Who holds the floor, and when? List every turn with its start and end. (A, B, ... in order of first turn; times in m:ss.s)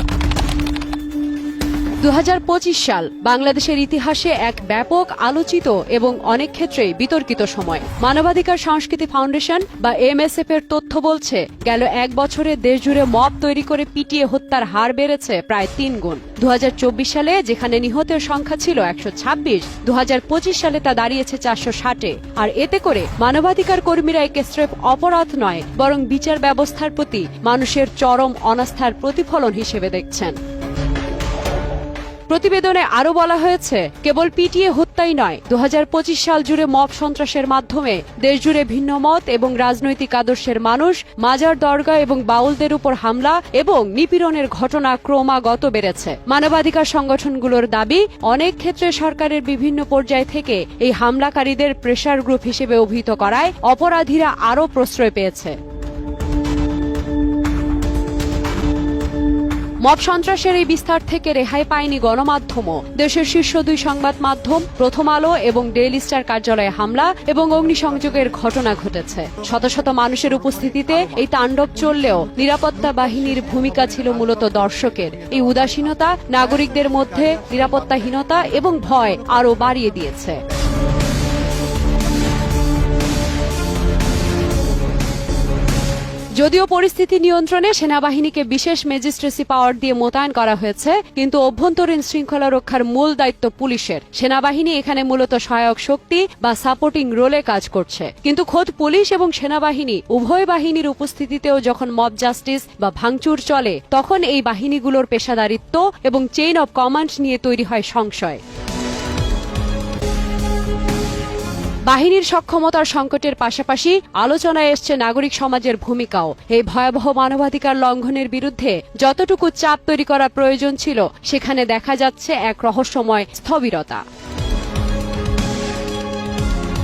0:02.0-0:30.4 A
0:32.3-0:55.6 A
0:59.8-1:20.4 A
1:26.4-1:48.4 A
1:51.9-2:04.0 A